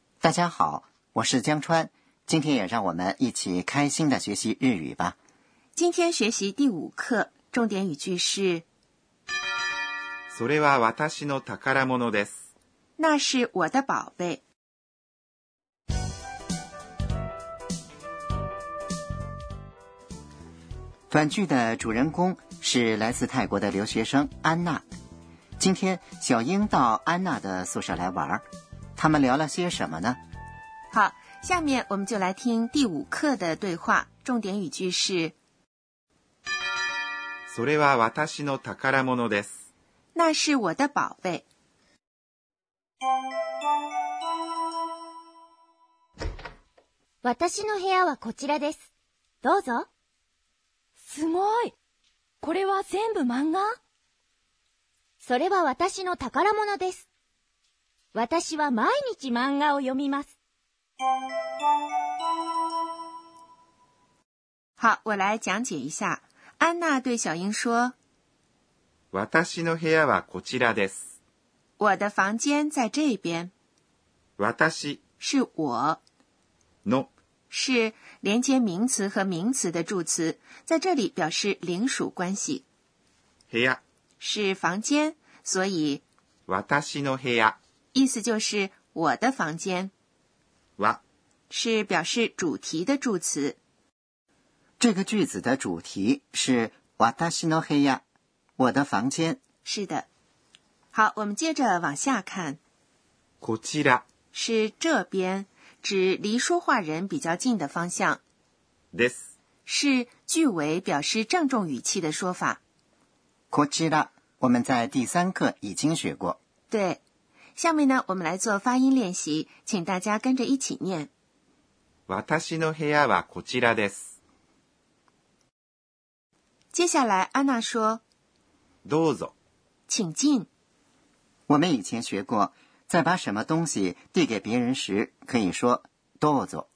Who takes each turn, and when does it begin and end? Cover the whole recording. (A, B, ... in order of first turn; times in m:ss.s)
0:00.2-0:05.2 A
0:05.8-0:08.6 B
0:10.3-0:12.4 C
0:13.0-0:14.4 B
0:21.1-0:24.8 A
0:25.6-0:28.4 A
0:29.0-0:30.2 A
0:30.9-0:35.4 B
0:37.5-0:39.6 C
0:40.2-0:41.5 B
0:47.2-0:48.9 D
0:49.4-0:49.9 D
0:51.1-0:51.7 E
0:52.4-0:53.8 E
0:55.2-0:57.1 D
0:58.1-1:00.3 D
1:04.8-1:08.0 B
1:09.1-1:11.0 C
1:11.8-1:13.5 B
1:14.4-1:15.0 C
1:15.2-1:16.0 B
1:17.5-1:22.6 B
1:23.5-1:23.8 C
1:24.2-1:26.0 B
1:26.5-1:27.6 C
1:27.9-1:29.9 B
1:31.5-1:33.6 B
1:34.8-1:38.0 A
1:38.6-1:39.4 A
1:39.6-1:40.1 B
1:40.9-1:42.6 B
1:43.4-1:44.0 C
1:44.3-1:48.2 B
1:48.9-1:49.2 C
1:49.7-1:52.6 B
1:53.5-1:56.4 A
1:56.7-1:57.0 B
1:57.6-2:01.1 B
2:02.1-2:04.1 C
2:06.7-2:08.0 B
2:08.8-2:09.3 C
2:09.9-2:10.5 B
2:11.5-2:16.7 A